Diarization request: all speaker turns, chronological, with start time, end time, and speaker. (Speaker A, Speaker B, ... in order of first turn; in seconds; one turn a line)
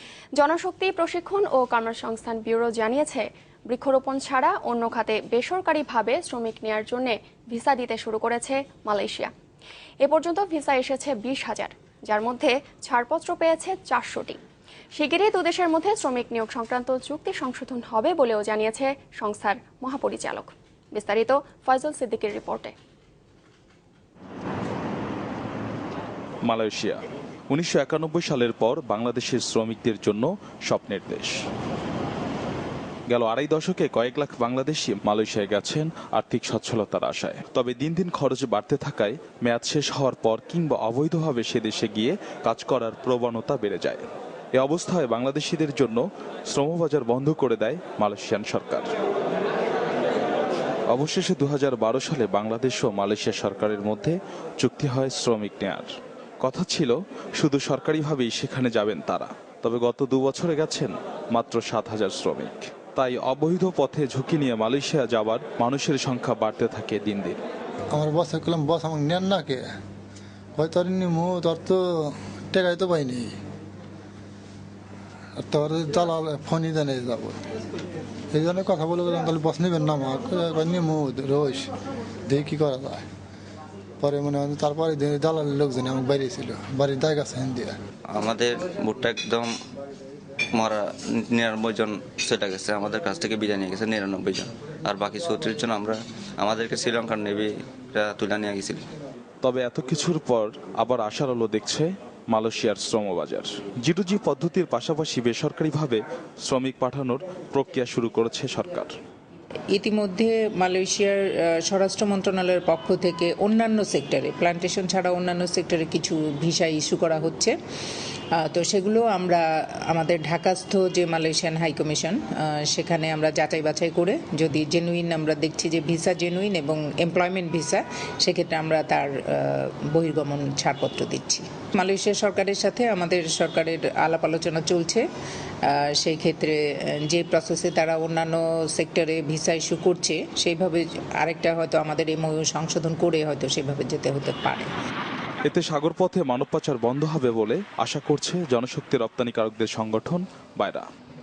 Speaker A: 0.4-9.3
Speaker A: 10.0-14.4
Speaker A: 14.9-22.7
Speaker B: 26.4-27.0
Speaker B: 27.5-31.4
Speaker B: 33.1-44.0
Speaker B: 44.5-48.9
Speaker B: 50.9-55.9
Speaker B: 56.4-67.4
Speaker C: 67.9-69.6
Speaker C: 70.6-73.3
Speaker C: 75.4-77.4
Speaker C: 78.3-81.7
Speaker C: 82.3-83.0
Speaker C: 84.0-87.7
Speaker D: 88.1-89.5
Speaker D: 90.5-98.9
Speaker B: 99.4-108.9
Speaker E: 109.7-117.5
Speaker E: 118.4-135.1
Speaker E: 135.7-144.7
Speaker B: 145.4-150.9